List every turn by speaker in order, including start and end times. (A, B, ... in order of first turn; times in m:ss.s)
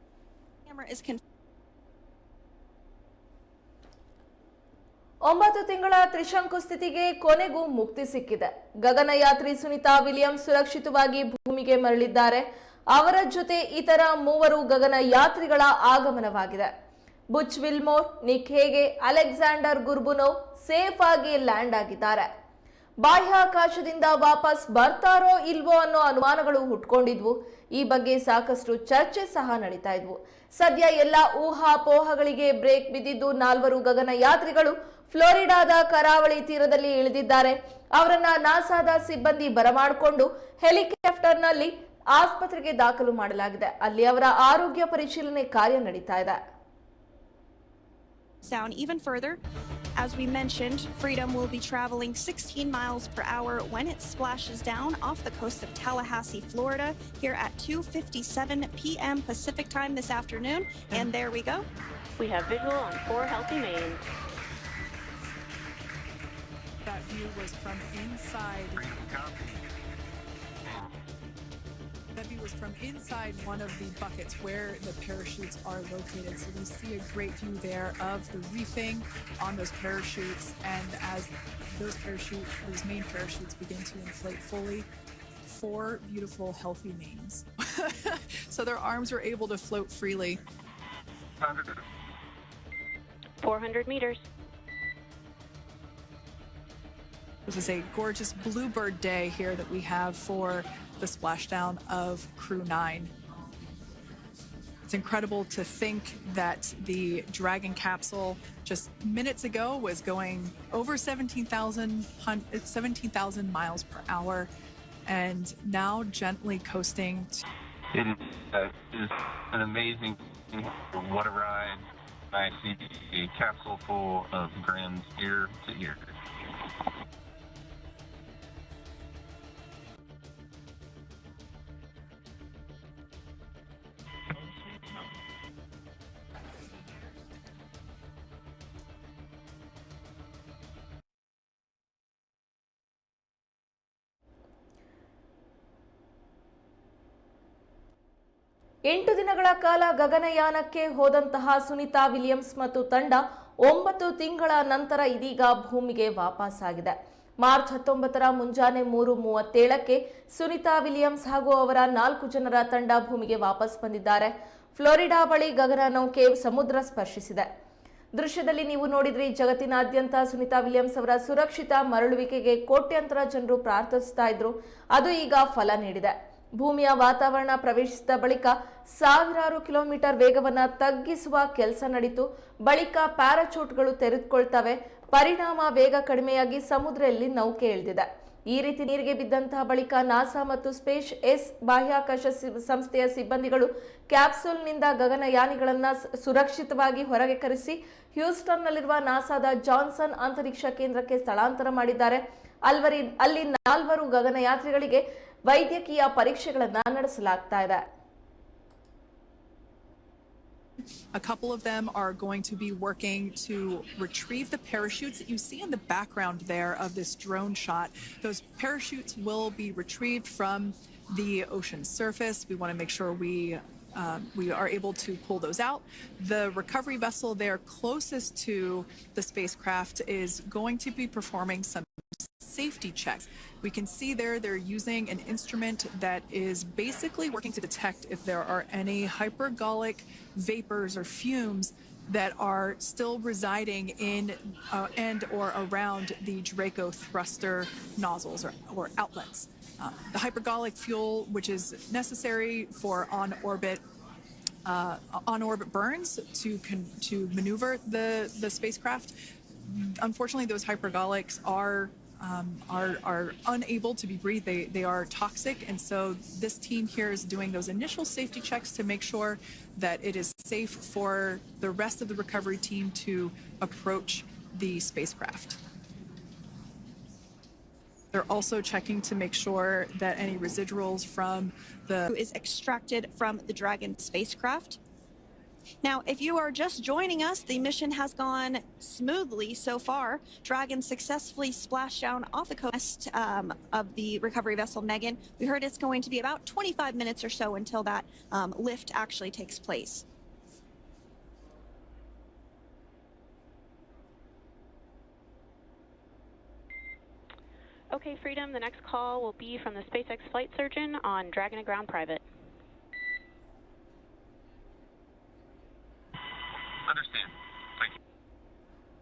0:00.7-0:01.2 A
0:05.3-0:16.7 B
0:17.3-0:22.3 B
0:23.0-0:46.4 B
0:48.4-0:49.4 A
0:50.0-1:01.6 A
1:02.2-1:04.0 C
1:06.8-1:08.8 D
1:08.8-1:09.6 E
1:12.1-1:24.9 D
1:25.4-1:30.4 D
1:31.4-1:31.8 E
1:33.4-1:34.2 C
1:37.4-1:43.1 D
1:44.8-1:54.5 D
1:55.0-1:57.4 D
1:57.9-2:06.1 E
2:28.9-2:47.5 B
2:48.2-3:27.8 B
3:31.1-4:13.8 D
4:14.6-4:35.6 D
4:38.1-4:42.1 D
4:42.1-4:44.8 A
4:45.8-5:00.0 A
5:07.9-5:12.2 C
5:16.8-5:17.9 E